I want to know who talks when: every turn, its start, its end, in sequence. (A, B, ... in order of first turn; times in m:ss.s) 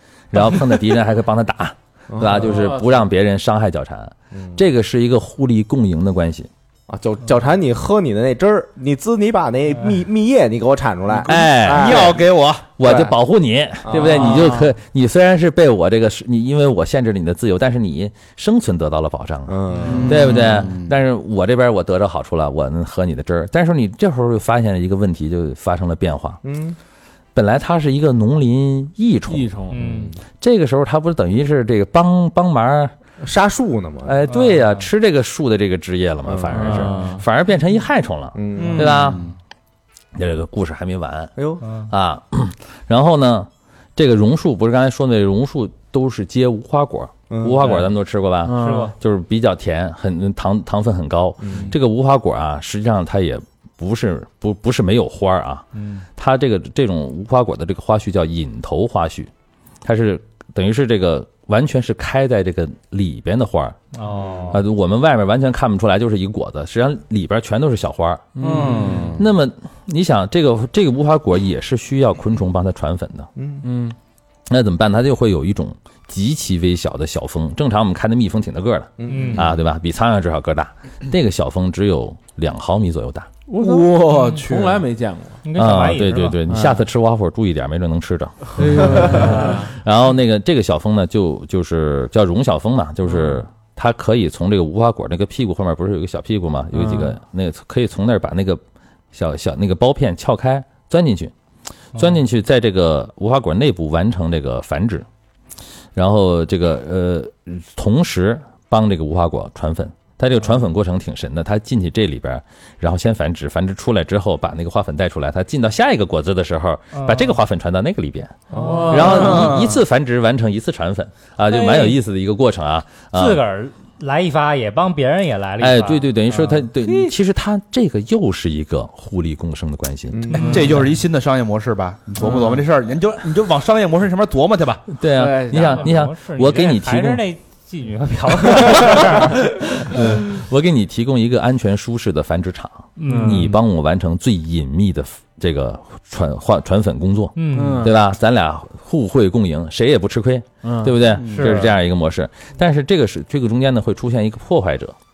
0:00.3-0:06.5 A
0:02.1-0:02.5 B
0:02.4-0:03.0 C
0:04.3-0:04.6 B
0:06.9-0:12.3 B
0:11.2-0:13.1 D
0:11.2-0:26.4 A
0:13.8-0:14.4 B
0:13.9-0:14.7 C
0:19.5-0:20.3 B
0:19.8-0:20.5 C
0:19.8-0:20.9 D
0:26.4-0:26.8 B
0:27.3-0:29.5 A
0:29.3-0:29.8 C
0:29.7-0:30.1 E
0:30.4-0:32.9 A
0:33.2-0:34.2 B
0:34.0-0:39.2 A
0:34.3-0:34.8 E
0:36.3-0:36.7 B
0:36.5-0:37.2 C
0:38.3-0:39.1 B
0:38.5-0:39.4 D
0:40.2-0:41.3 A
0:41.4-0:41.6 B
0:41.6-0:41.9 E
0:41.9-0:59.3 A
0:47.3-0:47.7 B
0:48.4-0:48.9 C
0:48.5-0:48.9 E
0:51.4-0:51.7 B
0:55.7-0:56.0 E
0:59.8-1:03.8 A
1:03.9-1:04.6 E
1:04.5-1:08.4 A
1:08.4-1:09.2 C
1:08.4-1:09.2 D
1:09.1-1:13.3 A
1:13.4-1:13.6 B
1:13.6-1:13.9 C
1:14.5-1:23.3 A
1:19.0-1:19.5 B
1:19.1-1:19.4 E
1:23.5-1:25.4 C
1:23.6-1:24.8 D
1:24.1-1:24.4 E
1:25.4-1:26.4 E
1:25.5-1:38.6 A
1:26.4-1:26.8 C
1:28.5-1:29.7 C
1:36.7-1:37.1 C
1:39.1-1:41.3 A
1:41.9-1:45.0 A
1:46.0-2:03.4 A
1:56.9-1:57.4 E
1:58.5-1:59.5 E
1:58.5-1:59.6 C
2:01.5-2:02.0 E
2:03.1-2:07.1 E
2:05.6-2:10.3 A
2:10.1-2:10.6 B
2:10.3-2:10.8 E
2:10.3-2:14.9 D
2:14.9-2:17.2 A
2:15.1-2:15.9 C
2:15.5-2:20.2 E
2:18.5-2:35.0 A
2:23.0-2:23.6 E
2:23.0-2:23.5 C
2:27.4-2:27.9 E
2:27.5-2:28.0 C
2:30.6-2:31.0 C
2:31.1-2:31.7 D
2:31.2-2:31.7 E